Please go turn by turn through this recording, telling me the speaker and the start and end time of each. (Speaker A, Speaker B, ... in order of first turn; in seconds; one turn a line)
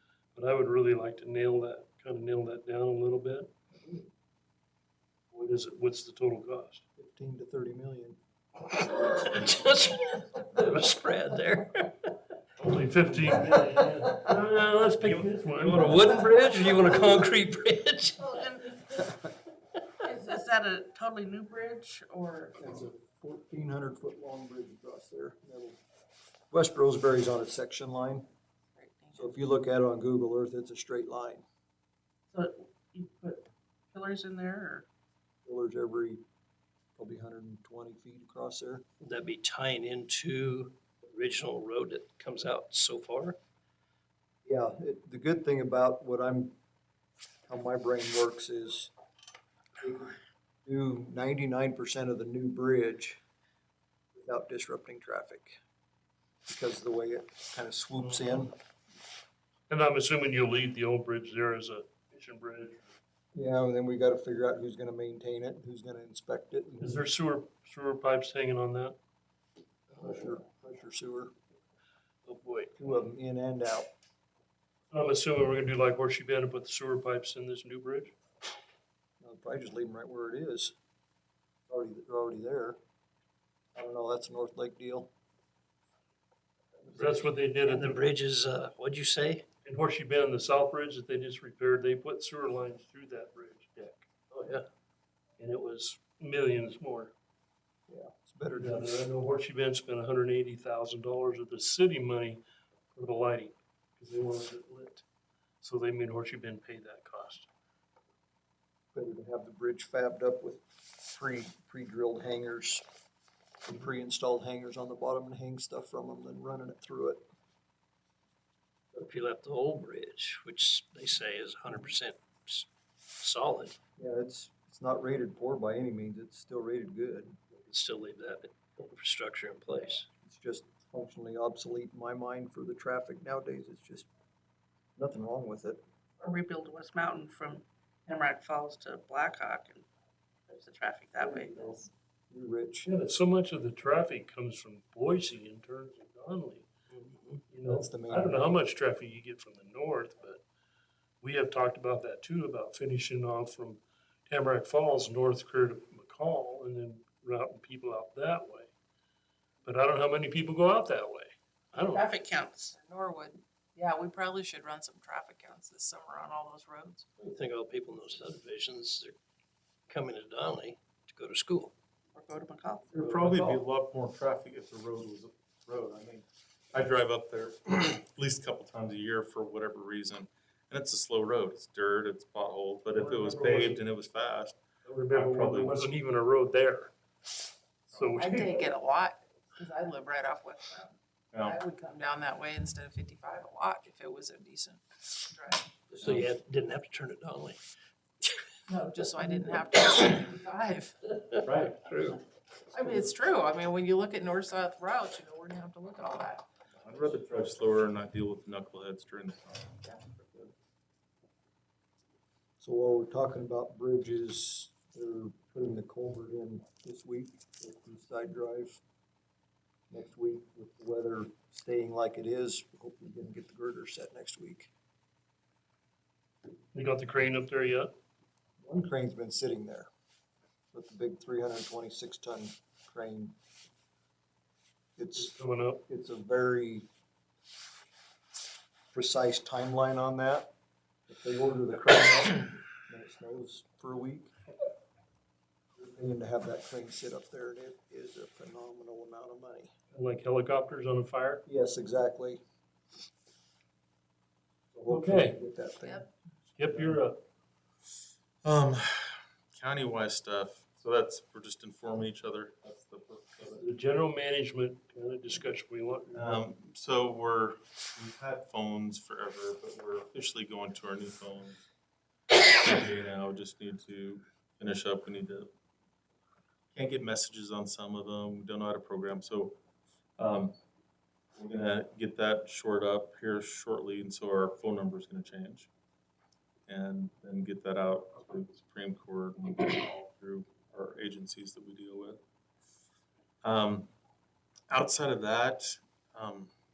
Speaker A: 0.3-3.5
Speaker A: 5.3-6.8
Speaker B: 7.0-8.2
Speaker C: 8.7-12.1
Speaker A: 12.6-16.0
Speaker C: 13.3-14.3
Speaker C: 15.0-18.8
Speaker D: 18.2-18.7
Speaker D: 20.1-22.6
Speaker B: 22.6-25.8
Speaker B: 26.5-28.3
Speaker E: 28.8-29.3
Speaker B: 29.1-31.4
Speaker D: 32.3-34.9
Speaker B: 35.5-36.2
Speaker B: 37.0-38.8
Speaker C: 39.0-43.4
Speaker B: 44.5-46.5
Speaker B: 47.5-48.9
Speaker B: 49.8-53.2
Speaker B: 54.2-55.6
Speaker B: 56.5-58.5
Speaker A: 59.7-63.0
Speaker B: 63.4-67.0
Speaker A: 66.8-69.0
Speaker B: 69.9-71.3
Speaker C: 72.3-72.7
Speaker B: 72.8-73.9
Speaker A: 74.9-78.1
Speaker B: 79.2-80.8
Speaker B: 81.7-82.8
Speaker B: 83.8-85.1
Speaker C: 86.9-89.5
Speaker A: 87.0-88.0
Speaker A: 89.7-94.1
Speaker C: 94.3-94.7
Speaker A: 95.4-97.1
Speaker B: 97.9-99.0
Speaker A: 98.5-105.0
Speaker A: 105.6-107.5
Speaker B: 108.9-112.8
Speaker B: 113.6-117.2
Speaker C: 118.9-123.8
Speaker B: 124.0-127.4
Speaker C: 127.7-130.1
Speaker B: 130.2-134.1
Speaker B: 135.0-135.8
Speaker D: 136.2-139.9
Speaker D: 140.5-141.9
Speaker B: 141.2-142.9
Speaker A: 142.9-146.7
Speaker C: 146.9-147.4
Speaker A: 147.5-150.4
Speaker B: 147.7-148.4
Speaker A: 151.2-158.7
Speaker A: 159.6-162.1
Speaker D: 161.8-162.8
Speaker E: 162.8-167.0
Speaker C: 167.2-169.2
Speaker C: 169.9-171.7
Speaker D: 172.1-173.0
Speaker F: 172.9-185.9
Speaker A: 182.9-183.8
Speaker A: 184.8-186.9
Speaker A: 187.9-188.6
Speaker E: 188.2-190.9
Speaker E: 191.5-195.6
Speaker C: 195.9-197.6
Speaker F: 196.0-196.3
Speaker E: 198.7-200.9
Speaker C: 201.3-202.2
Speaker F: 201.4-201.9
Speaker E: 202.7-206.4
Speaker F: 206.7-210.5
Speaker B: 212.6-218.8
Speaker B: 219.9-224.7
Speaker A: 226.7-227.9
Speaker B: 228.6-229.9
Speaker B: 230.7-233.3
Speaker B: 235.0-236.9
Speaker A: 235.2-235.8
Speaker B: 238.9-240.5
Speaker B: 241.1-244.3
Speaker B: 245.8-249.7
Speaker A: 249.9-251.4
Speaker B: 251.5-252.4
Speaker B: 254.7-256.1
Speaker A: 254.9-255.4
Speaker A: 256.6-257.2
Speaker F: 258.4-263.7
Speaker A: 263.4-266.4
Speaker F: 266.1-271.6
Speaker F: 272.3-275.5
Speaker F: 276.7-279.6
Speaker F: 280.2-280.6
Speaker F: 281.3-285.7
Speaker F: 286.7-292.2
Speaker F: 293.4-293.9
Speaker F: 294.7-296.5